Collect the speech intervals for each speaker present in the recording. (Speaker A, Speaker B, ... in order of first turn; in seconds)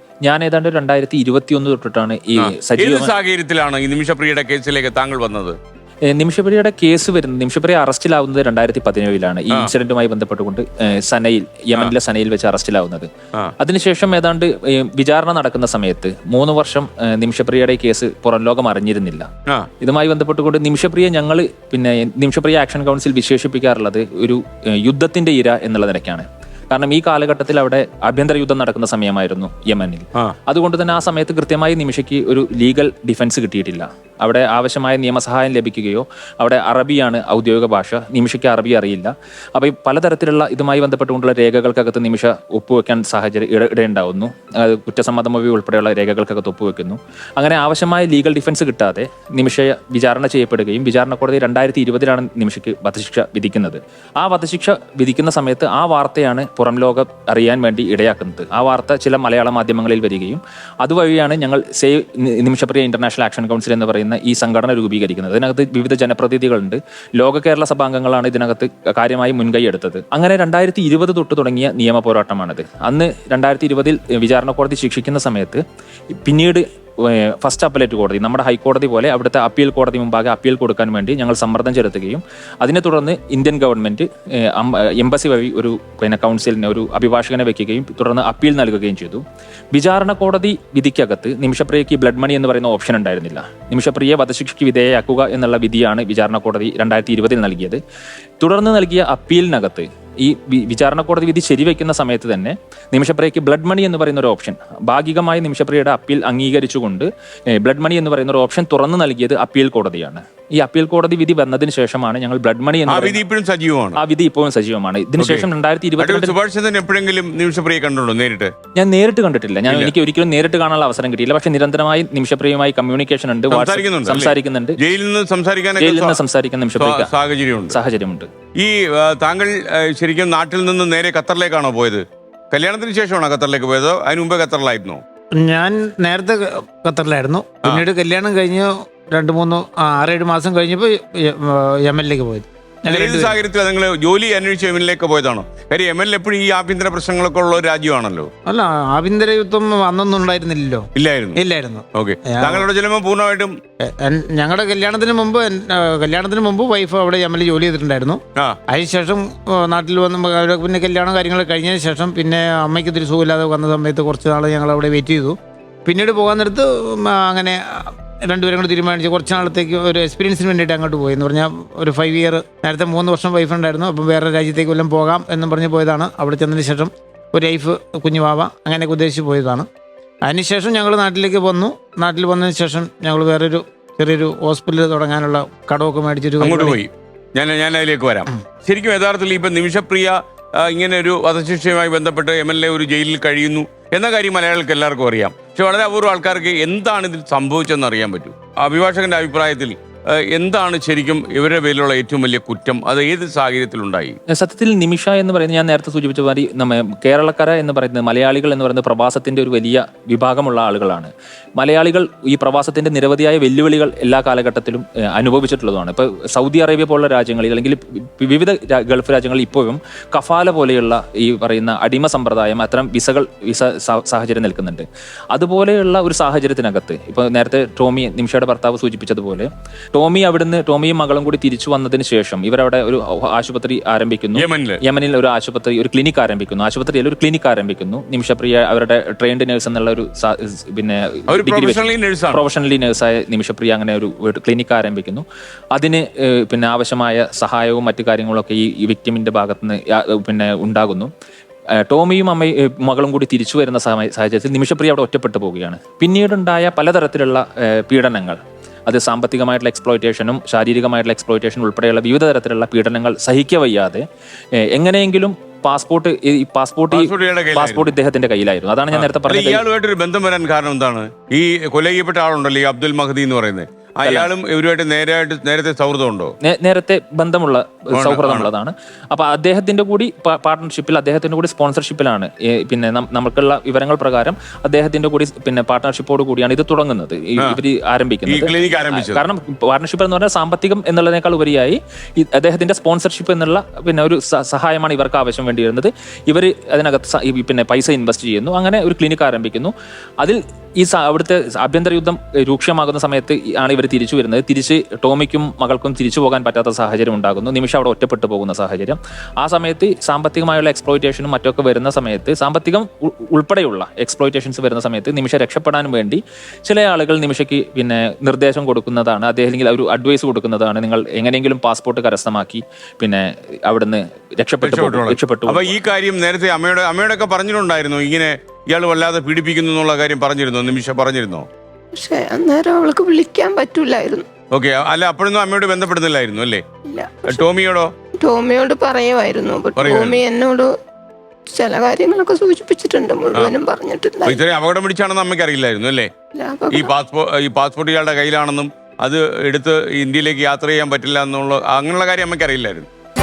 Speaker A: 0.2-3.1, 6.1-13.1, 13.6-19.3, 19.8-97.8, 98.4-113.2, 114.0-116.3, 118.7-124.8, 125.8-127.1, 127.7-128.3, 204.3-251.1, 251.8-264.0, 264.7-269.6, 274.0-274.3, 276.4-325.8
Speaker B: 2.4-5.6, 112.9-114.0, 115.2-115.5, 116.0-118.5, 123.5-126.2, 126.8-127.8, 128.6-135.0, 142.9-148.3, 150.9-151.4, 151.9-153.5, 186.4-204.2, 234.3-234.8, 241.3-242.4, 266.9-267.9, 268.9-276.3, 277.9-278.5, 288.3-289.2, 324.6-331.4, 334.5-336.6, 337.3-337.9, 339.8-340.2, 344.2-346.1, 346.7-352.9
Speaker C: 135.4-143.3, 148.5-152.6, 153.8-179.7, 180.2-186.8
Speaker D: 331.9-334.3, 336.9-337.4, 338.2-340.7, 341.5-344.4, 346.3-346.9